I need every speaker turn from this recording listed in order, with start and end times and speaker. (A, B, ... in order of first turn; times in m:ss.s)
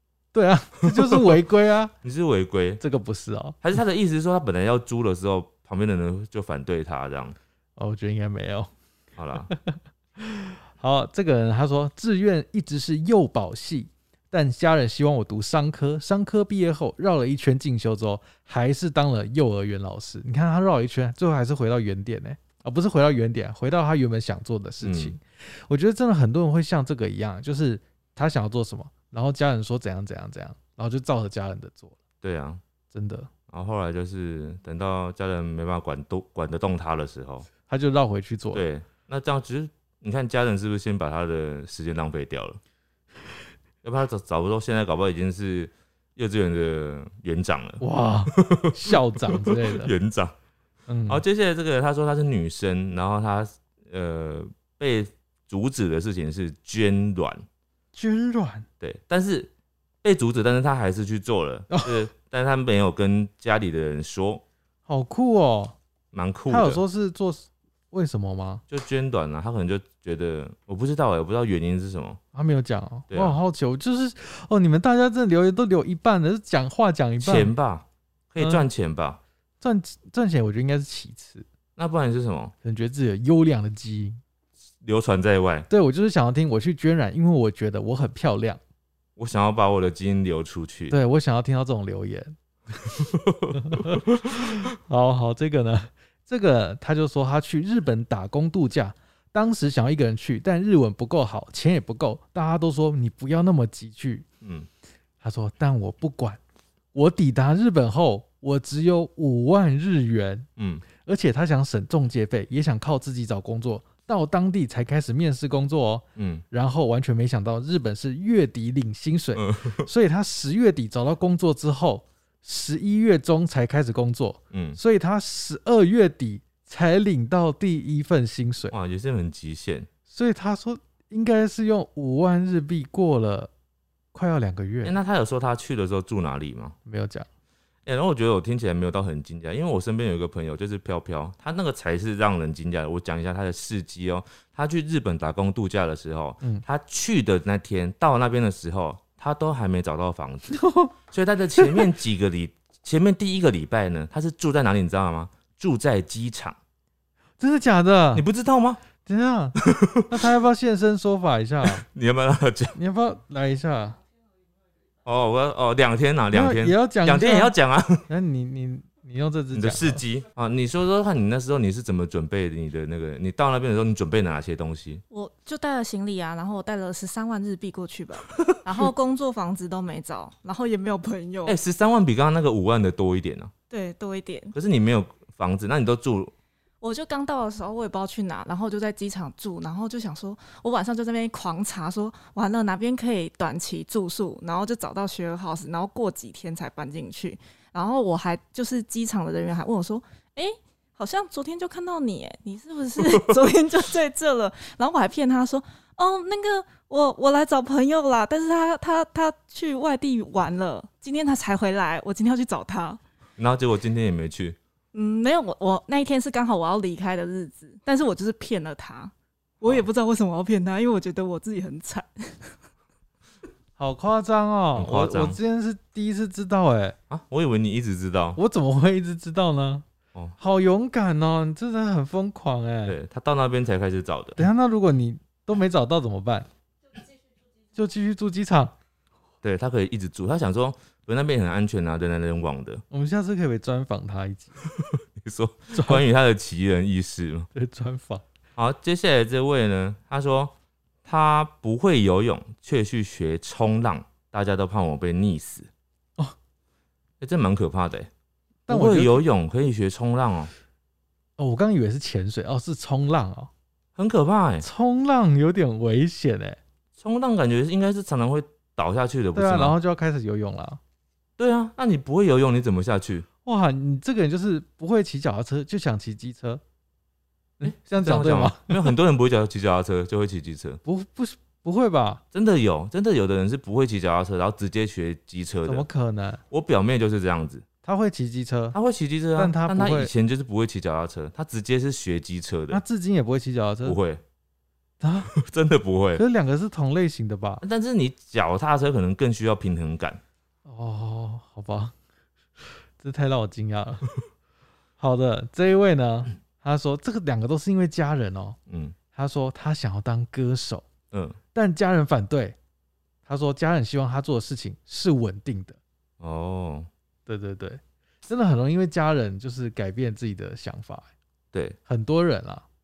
0:00.3-0:01.9 A
0:00.9-0:01.4 B
0:02.0-0:02.8 B
0:02.8-0:03.6 A
0:03.6-0:07.4 B
0:07.8-0:08.7 A
0:09.2-0:09.5 B
0:09.5-0:32.0 A
0:24.8-0:25.1 B
0:32.2-0:32.6 B
0:32.9-0:33.3 A
0:33.5-0:37.5 B
0:37.7-0:38.6 A
0:38.5-0:42.6 B
0:43.8-0:50.3 B
0:47.8-0:49.9 A
0:50.9-0:51.2 A
0:51.1-0:57.4 B
0:57.9-0:58.7 A
0:58.8-0:59.5 B
1:00.0-1:04.4 B
1:01.7-1:02.0 A
1:04.9-1:05.7 A
1:06.1-1:06.8 B
1:06.5-1:08.6 A
1:08.7-1:12.2 B
1:12.3-1:17.5 A
1:13.1-1:13.4 B
1:17.2-1:19.2 B
1:18.4-1:18.6 A
1:19.6-1:21.4 A
1:21.8-1:22.5 B
1:22.6-1:24.2 A
1:24.8-1:25.7 B
1:25.7-1:28.6 A
1:29.2-1:30.9 B
1:30.9-1:32.3 A
1:33.0-1:34.5 B
1:33.5-1:44.2 A
1:44.4-1:44.7 B
1:45.2-1:46.4 A
1:46.9-1:50.5 A
1:50.6-1:50.8 B
1:51.0-2:08.7 A
1:56.2-1:56.4 B
1:59.4-1:59.8 B
2:04.5-2:04.8 B
2:08.7-2:09.9 B
2:10.1-2:13.5 A
2:14.1-2:15.0 A
2:14.8-2:16.8 B
2:16.8-2:17.3 A
2:17.8-2:36.6 B
2:30.5-2:30.9 A
2:31.6-2:31.8 A
2:37.4-2:38.2 A
2:38.1-2:38.8 B
2:39.0-2:41.8 A
2:39.6-2:40.3 B
2:41.6-2:42.8 B
2:42.7-2:44.0 A
2:45.0-2:48.1 B
2:46.3-2:47.5 A
2:48.1-2:50.0 A
2:49.5-2:55.0 B
2:55.1-3:01.6 C
3:01.4-3:03.5 B
3:03.7-3:04.5 C
3:04.5-3:06.3 B
3:06.8-3:33.0 C
3:33.4-3:34.6 B
3:34.9-3:42.6 C
3:43.8-3:47.0 A
3:44.7-3:45.4 B
3:47.1-3:48.4 B
3:48.4-3:49.8 A
3:50.4-3:53.0 A
3:52.8-3:54.5 B
3:54.4-3:56.5 A
3:57.7-3:58.7 A
3:59.4-4:02.8 B
4:02.9-4:04.6 A
4:04.6-4:07.5 B
4:05.7-4:06.0 A
4:07.5-4:08.2 A
4:08.6-4:10.5 B
4:11.0-4:15.7 B
4:17.2-4:18.1 B
4:18.7-4:19.2 A
4:18.7-4:20.5 B
4:21.4-4:23.5 A
4:24.0-4:24.6 B
4:24.6-4:26.6 A
4:27.0-4:29.7 B
4:29.3-4:30.8 A
4:31.4-4:33.2 B
4:33.4-4:36.6 A
4:37.6-4:38.9 A
4:37.6-4:40.8 B
4:40.8-4:42.2 A
4:42.3-4:45.8 B
4:45.6-4:46.4 A
4:46.5-4:47.6 B
4:47.8-4:48.8 A
4:48.7-4:52.8 B
4:49.4-4:50.1 A
4:52.7-4:54.0 A
4:53.8-4:54.2 B
4:55.0-4:55.3 A
4:55.3-4:56.2 B
4:56.1-4:57.6 A
4:57.6-5:00.2 B
5:00.6-5:01.9 A
5:02.6-5:04.1 A
5:05.0-5:08.6 A
5:08.7-5:09.0 B
5:09.1-5:10.9 A
5:11.1-5:11.4 B
5:11.5-5:12.6 A
5:13.2-5:15.8 A
5:16.2-5:16.9 B
5:17.3-5:21.1 A
5:21.8-5:22.6 A